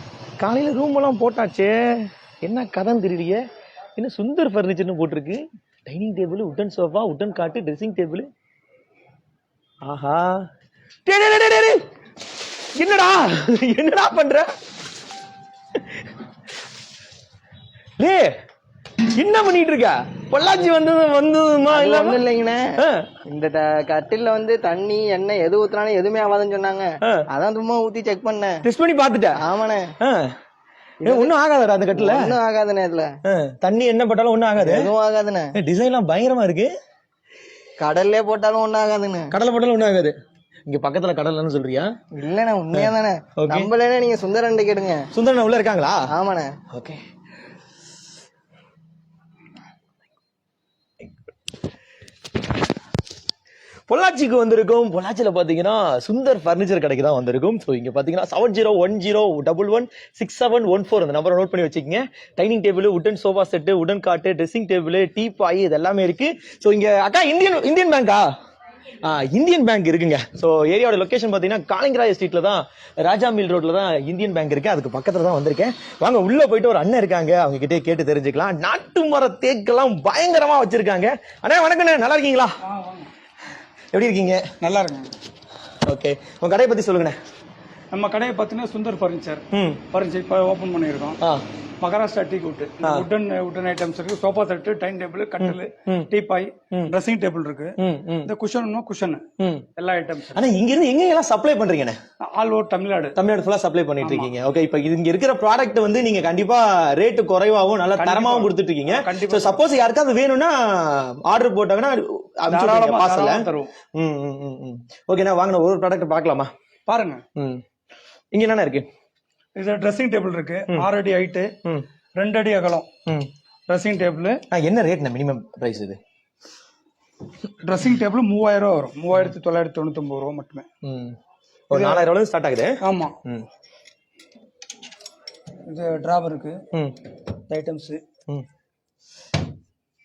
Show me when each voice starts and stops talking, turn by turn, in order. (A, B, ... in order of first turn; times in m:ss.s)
0:00.4-0:03.4 A
0:04.0-0:08.3 A
0:09.8-0:10.5 A
0:11.0-0:11.8 A
0:12.7-0:14.5 A
0:18.0-0:18.3 A
0:19.1-0:22.2 A
0:21.7-0:28.6 B
0:22.8-0:23.1 A
0:28.6-0:29.4 A
0:29.4-0:29.9 B
0:30.0-0:30.3 A
0:31.0-0:31.3 B
0:31.0-0:32.4 A
0:31.9-0:33.2 B
0:33.2-0:34.9 A
0:34.6-0:35.5 B
0:35.5-0:36.7 A
0:37.8-0:39.3 B
0:39.3-0:40.1 A
0:40.7-0:41.9 A
0:42.1-0:45.1 B
0:42.7-0:43.7 A
0:45.1-0:46.1 A
0:46.1-0:46.6 B
0:46.7-0:47.0 A
0:53.9-1:08.3 A
1:09.0-1:22.6 A
1:22.6-1:23.1 C
1:23.9-1:24.4 A
1:24.6-1:25.1 C
1:25.8-1:27.2 A
1:27.9-1:31.2 C
1:29.5-1:29.8 A
1:31.8-1:39.2 C
1:35.4-1:36.1 A
1:37.8-1:38.3 A
1:39.4-1:39.6 A
1:39.8-1:40.5 C
1:40.3-1:42.0 A
1:42.2-1:43.2 C
1:43.2-1:56.5 A
1:44.0-1:44.3 C
1:47.9-1:49.6 C
1:52.5-1:53.7 C
1:56.9-1:57.2 C
1:57.4-1:57.6 A
1:58.3-1:58.9 A
1:59.5-2:01.5 C
2:02.2-2:02.8 C
2:03.7-2:04.4 C
2:04.5-2:06.0 A
2:07.6-2:10.6 C
2:10.8-2:11.2 A
2:11.7-2:13.5 A
2:11.7-2:12.0 C
2:12.8-2:13.2 C
2:15.7-2:16.6 C
2:17.5-2:18.0 C